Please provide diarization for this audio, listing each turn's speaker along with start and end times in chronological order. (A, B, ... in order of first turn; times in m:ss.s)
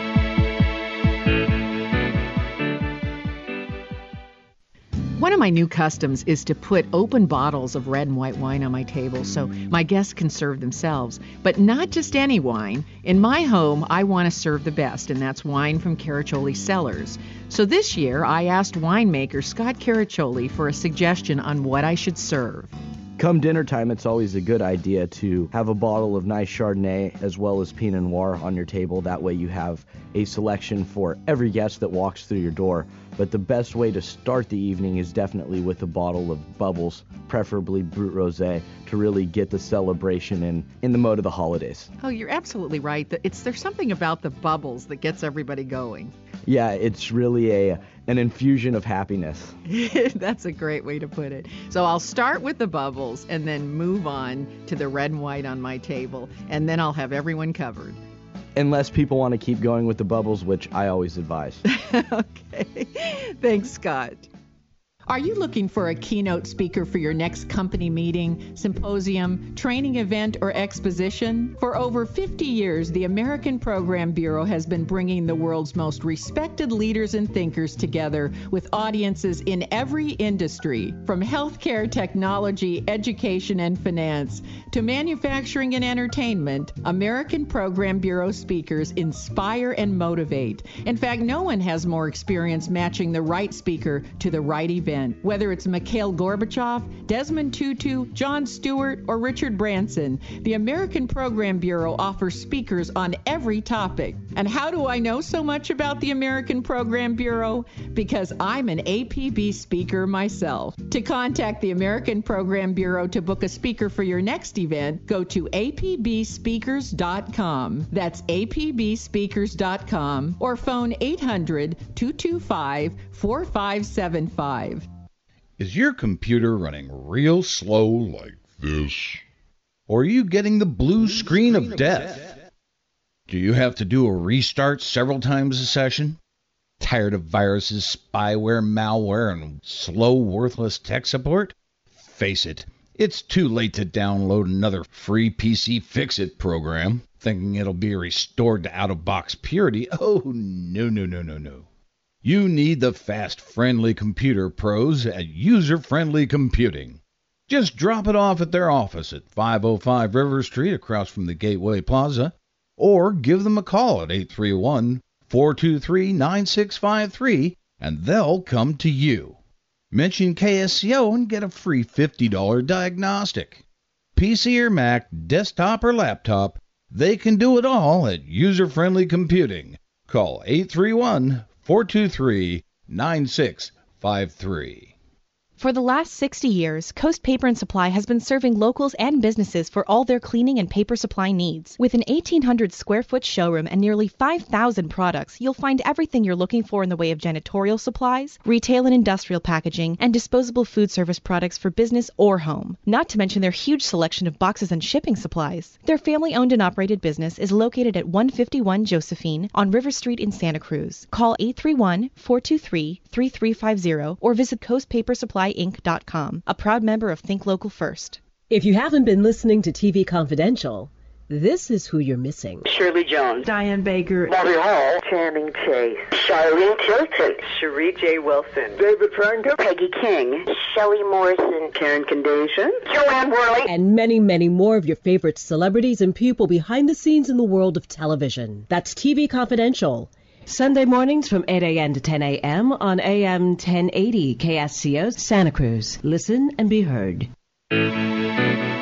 0:05.2-0:22.8 A
0:23.2-0:41.9 B
0:42.0-0:46.1 A
0:46.5-0:49.6 B
0:49.7-0:58.0 A
0:58.6-1:01.6 B
1:01.6-1:04.3 A
1:05.1-2:04.9 A
2:05.6-2:09.2 C
2:09.9-2:12.3 C
2:13.3-2:16.2 C
2:16.8-2:31.7 C
2:32.2-2:49.4 C
2:49.9-2:53.6 C
2:54.2-3:04.9 C
3:05.6-3:38.2 D
3:38.5-3:42.7 E
3:42.7-3:43.5 F
3:43.5-3:44.4 E
3:44.3-3:53.7 F
3:53.7-4:07.3 E